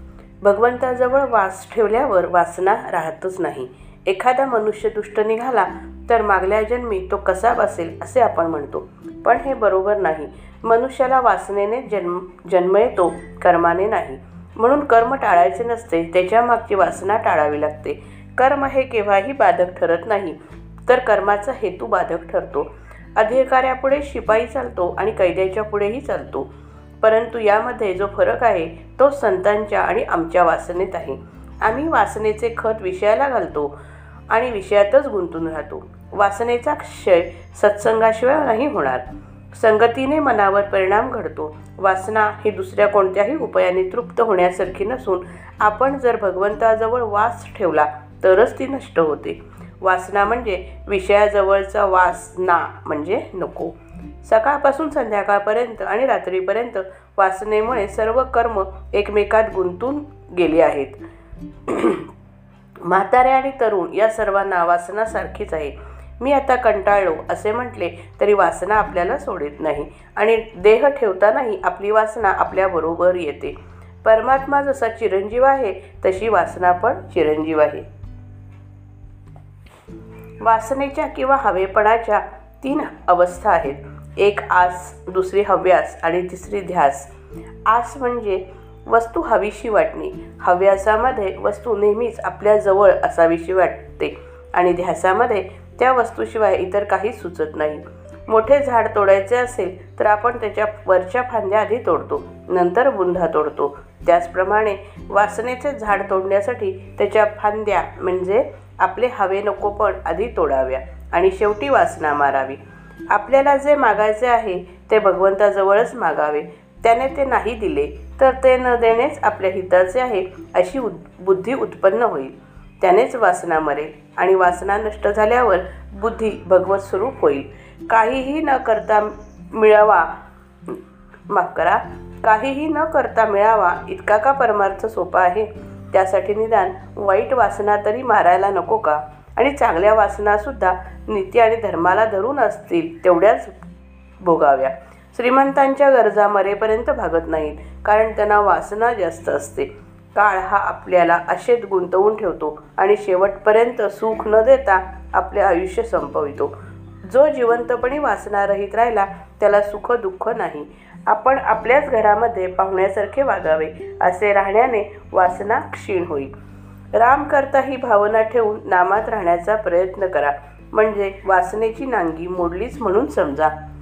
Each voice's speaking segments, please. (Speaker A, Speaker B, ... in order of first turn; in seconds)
Speaker A: 0.4-26.5, 27.0-33.8, 34.3-61.0, 61.6-62.1, 62.8-77.9, 80.4-87.1, 87.7-112.6, 113.1-143.5, 144.2-166.3, 166.9-173.5